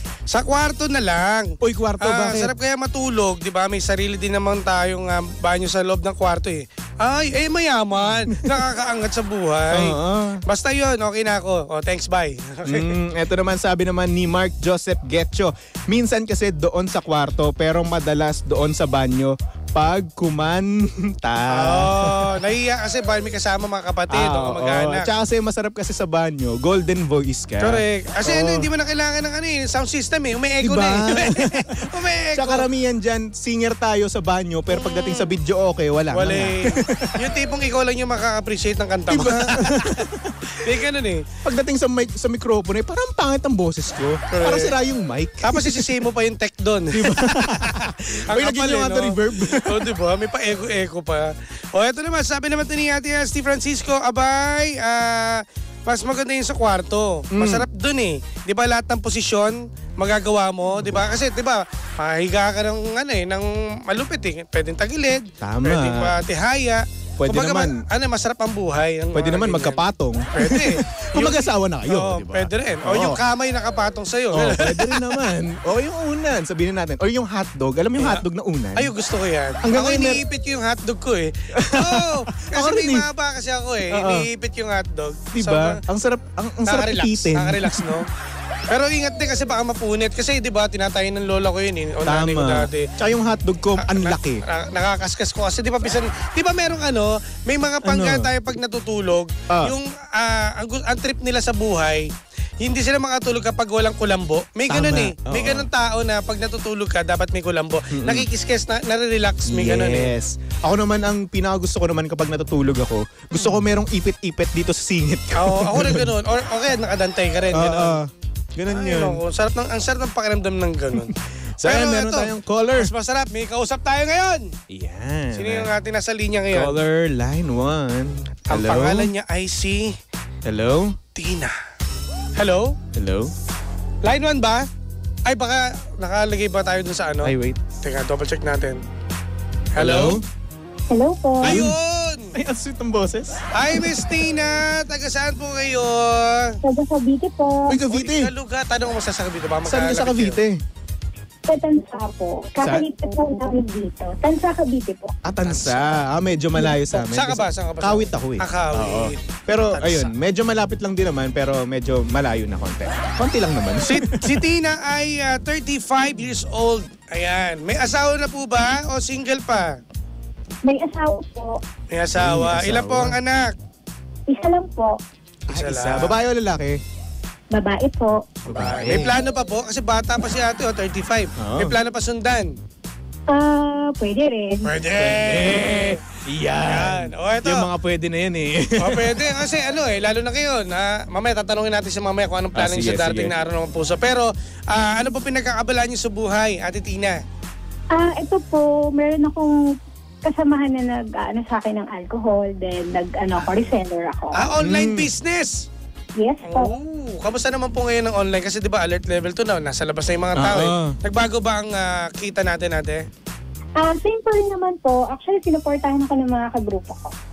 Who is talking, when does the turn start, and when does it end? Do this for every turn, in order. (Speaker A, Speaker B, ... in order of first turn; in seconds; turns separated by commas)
Speaker A: 0.3-12.9, Speaker B: 1.6-2.5, Speaker B: 8.3-8.6, Speaker B: 9.7-10.4, Speaker B: 12.7-22.3, Speaker A: 21.5-25.1, Speaker B: 24.1-28.7, Speaker A: 27.6-32.6, Speaker B: 30.6-31.8, Speaker B: 32.3-37.2, Speaker A: 34.7-35.3, Speaker A: 36.1-41.2, Speaker B: 39.1-40.7, Speaker B: 41.4-45.9, Speaker A: 44.3-44.7, Speaker A: 45.4-69.8, Speaker B: 46.9-49.9, Speaker B: 57.3-57.6, Speaker B: 65.4-66.1, Speaker B: 67.2-67.8, Speaker B: 69.1-73.2, Speaker A: 70.3-75.2, Speaker B: 74.3-78.9, Speaker A: 78.0-78.2, Speaker A: 78.8-85.8, Speaker B: 79.6-80.2, Speaker B: 81.5-83.1, Speaker B: 83.9-84.3, Speaker B: 85.3-88.0, Speaker A: 86.7-88.1, Speaker A: 88.7-92.8, Speaker B: 92.0-94.4, Speaker A: 93.8-102.1, Speaker B: 97.8-98.3, Speaker A: 102.6-110.1, Speaker B: 104.7-105.7, Speaker B: 107.9-108.3, Speaker B: 109.5-116.1, Speaker A: 115.3-118.0, Speaker B: 117.5-119.2, Speaker A: 118.7-121.1, Speaker B: 120.9-122.9, Speaker A: 121.6-124.5, Speaker B: 124.7-125.7, Speaker A: 125.3-126.8, Speaker B: 126.5-129.1, Speaker A: 128.5-129.9, Speaker B: 130.4-131.0, Speaker A: 131.1-131.5, Speaker A: 132.4-132.7, Speaker B: 132.9-133.3, Speaker A: 134.0-134.6, Speaker A: 135.2-138.8, Speaker B: 137.2-137.6, Speaker A: 139.8-140.2, Speaker B: 139.8-140.2, Speaker C: 140.9-141.6, Speaker A: 141.4-142.3, Speaker B: 141.4-141.7, Speaker B: 142.3-143.3, Speaker A: 143.5-146.5, Speaker C: 146.6-147.8, Speaker B: 147.7-148.3, Speaker A: 147.9-150.4, Speaker B: 149.6-150.6, Speaker C: 151.5-155.1, Speaker B: 152.6-152.9, Speaker B: 155.2-164.4, Speaker A: 155.4-156.0, Speaker A: 156.9-160.1, Speaker A: 163.8-169.7, Speaker C: 170.6-171.6, Speaker A: 171.9-173.5, Speaker B: 172.2-173.2, Speaker C: 174.3-175.0, Speaker A: 175.5-176.2, Speaker B: 175.5-176.8, Speaker C: 177.5-178.3, Speaker B: 178.4-179.2, Speaker A: 178.5-182.5, Speaker B: 181.4-181.8, Speaker C: 183.3-184.6, Speaker A: 184.6-186.0, Speaker B: 184.9-189.2, Speaker A: 186.6-187.7, Speaker A: 188.8-197.2, Speaker B: 192.5-193.3, Speaker C: 197.9-199.5, Speaker C: 200.2-204.5, Speaker A: 204.4-205.6, Speaker B: 204.6-205.1, Speaker C: 206.2-206.7, Speaker A: 206.4-213.0, Speaker B: 210.3-211.0, Speaker C: 213.8-217.1